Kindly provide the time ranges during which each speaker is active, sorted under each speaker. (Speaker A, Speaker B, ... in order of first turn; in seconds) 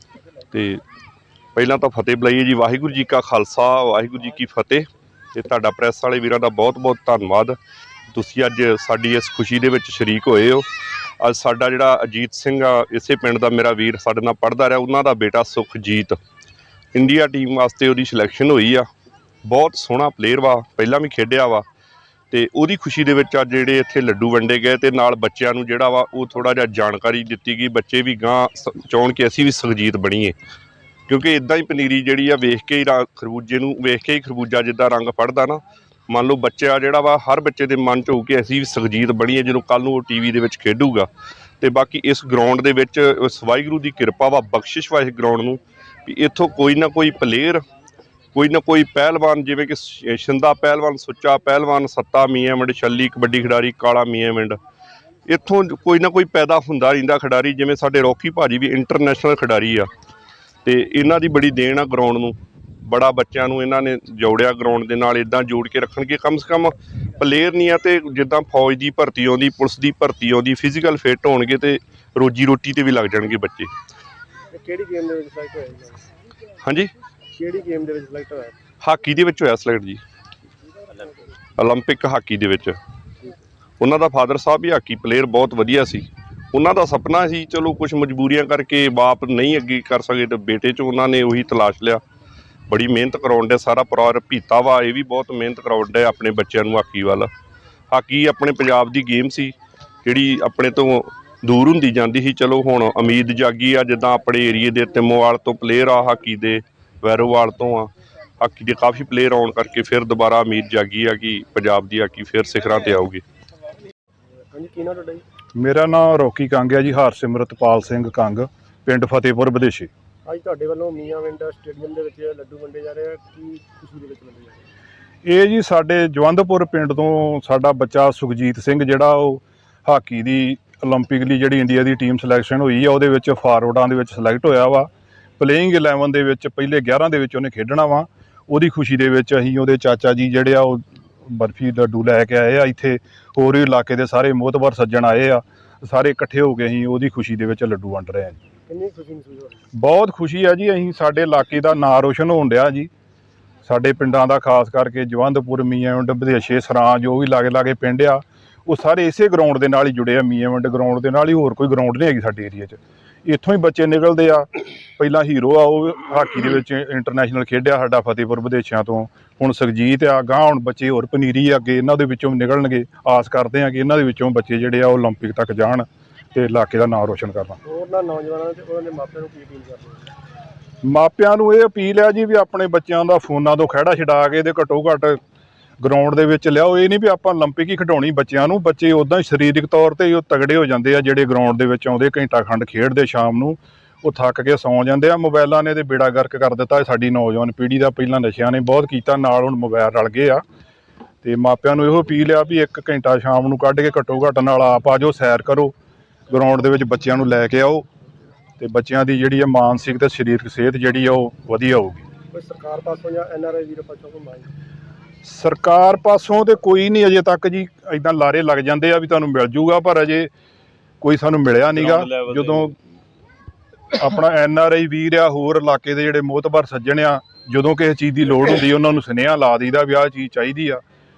Speaker A: 0.5-0.8, 1.6-7.6, 8.1-10.7, 11.2-16.2, 16.9-18.9, 19.4-21.6, 22.3-30.4, 31.1-41.1, 41.6-47.6, 48.4-54.6, 55.3-59.9, 60.6-73.7, 76.6-76.9, 78.8-80.0, 81.6-82.8, 83.8-92.0, 92.7-97.3, 97.9-113.2, 221.7-222.8
Speaker B: 74.5-76.0, 77.3-78.5, 114.5-115.2, 120.3-124.7, 148.7-149.6, 177.6-180.1, 212.3-214.5
Speaker C: 115.6-119.9, 125.2-148.4, 149.7-152.9, 153.7-164.5, 165.0-177.6, 180.8-185.2, 185.8-200.4, 201.2-205.7, 206.3-207.9, 208.6-212.1, 215.2-220.3, 221.0-222.7, 223.9-230.8